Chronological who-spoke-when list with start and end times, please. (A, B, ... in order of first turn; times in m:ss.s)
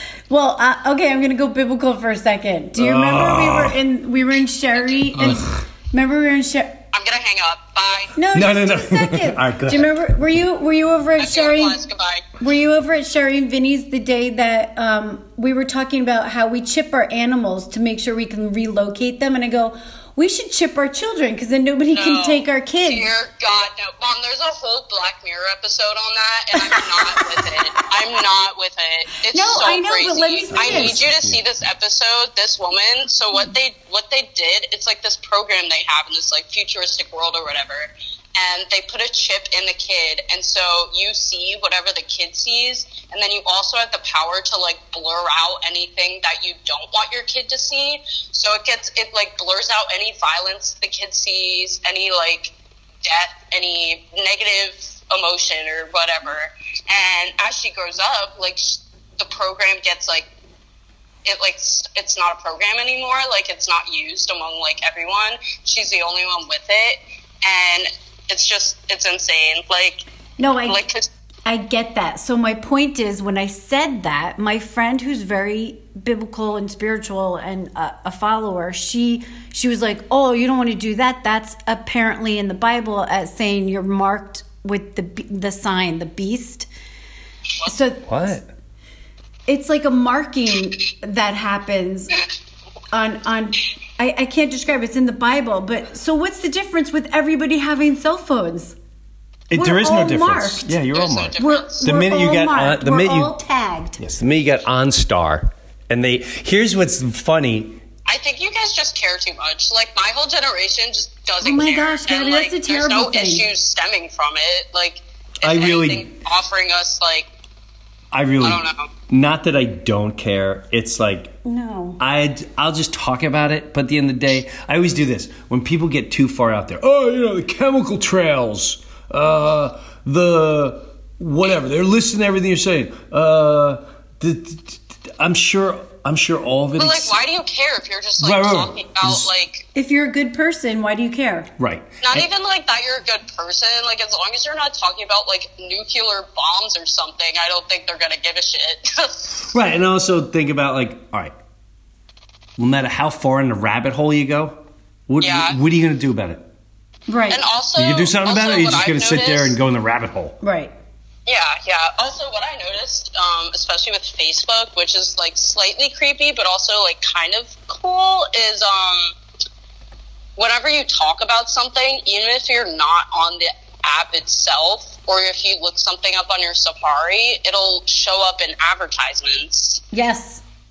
0:00.3-0:06.8 A
0:02.8-0:03.8 B
0:04.8-0:05.3 C
0:05.2-0:05.5 B
0:06.9-0:08.1 C
0:08.2-0:11.8 A
0:08.3-0:10.1 B
0:11.2-0:12.3 C
0:12.4-0:23.1 A
0:21.9-0:52.5 C
0:26.7-0:27.2 A
0:29.3-0:31.0 A
0:30.5-0:31.4 B
0:53.0-1:00.3 C
1:01.2-1:10.0 C
1:10.4-1:10.8 A
1:10.7-1:11.1 C
1:11.5-1:26.7 A
1:27.6-1:28.4 A
1:28.1-1:28.5 B
1:29.5-1:32.2 A
1:32.9-1:38.8 A
1:39.5-1:43.4 B
1:39.5-1:40.8 A
1:40.9-1:41.8 C
1:41.4-1:44.0 A
1:44.0-1:47.8 B
1:48.1-1:57.3 C
1:51.4-1:53.5 A
1:55.4-1:56.1 B
1:58.1-2:01.3 B
1:58.4-1:58.9 C
2:01.4-2:02.0 A
2:02.0-2:17.2 B
2:16.8-2:19.7 C
2:18.2-2:19.3 B
2:19.8-2:21.5 A
2:21.6-2:22.3 B
2:22.0-2:29.4 C
2:29.5-2:31.3 B
2:32.6-2:36.4 B
2:35.2-2:35.6 C
2:37.1-2:37.4 A
2:37.3-2:39.6 C
2:37.8-2:40.4 B
2:40.4-2:40.7 A
2:41.3-2:49.1 C
2:50.4-2:59.8 C
2:59.9-3:00.4 A